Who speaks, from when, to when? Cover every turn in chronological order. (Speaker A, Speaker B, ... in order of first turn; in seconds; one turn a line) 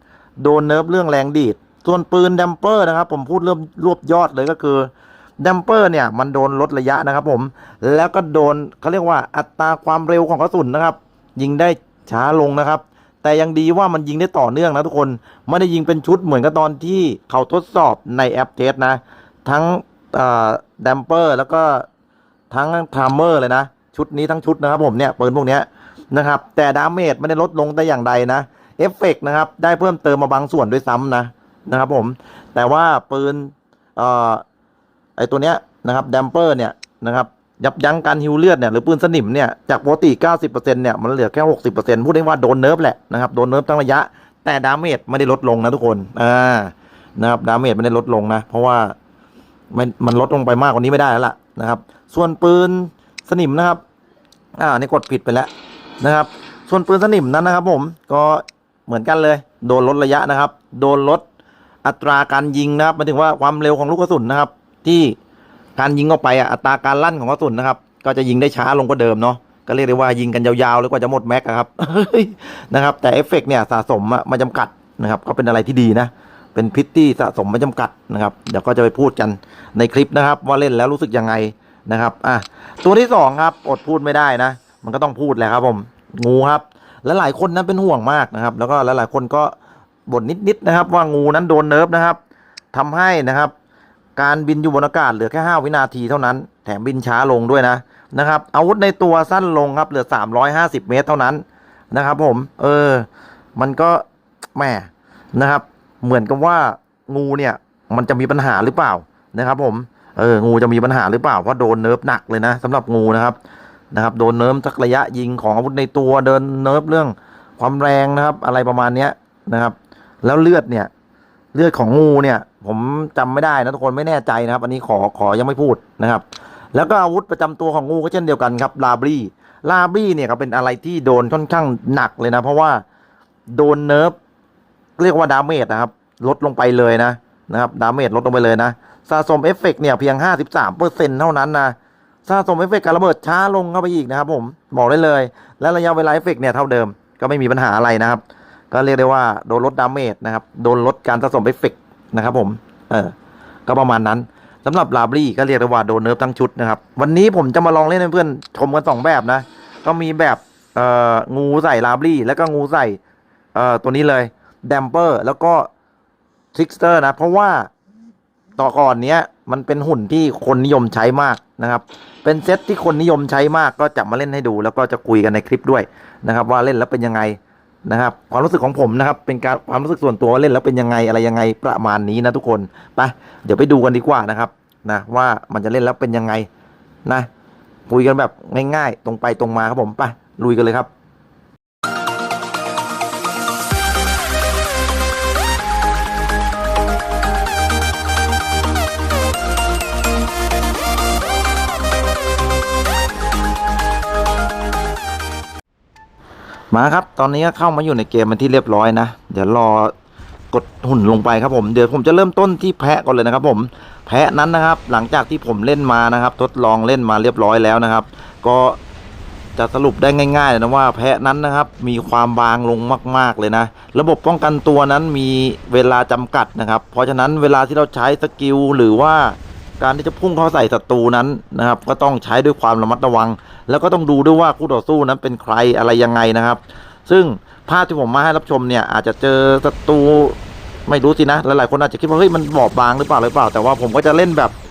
Speaker A: 0.4-21.9
Speaker A: 22.5-34.4
Speaker A: 35.2-49.0
Speaker A: 49.7-53.8
Speaker A: 54.6-61.2
Speaker A: 61.8-65.2
Speaker A: 65.8-89.5
Speaker A: 90.1-92.2
Speaker A: 92.7-93.5
Speaker A: 94.2-104.0
Speaker A: 104.5-113.4
Speaker A: 113.9-120.9
Speaker A: 121.5-132.8
Speaker A: 133.5-134.2
Speaker A: 135.0-153.1
Speaker A: 153.7-163.0
Speaker A: 163.6-165.7
Speaker A: 166.5-167.7
Speaker A: 168.6-186.5
Speaker A: 187.9-190.9
Speaker A: 206.7-209.9
Speaker A: 210.5-218.8
Speaker A: 219.6-244.5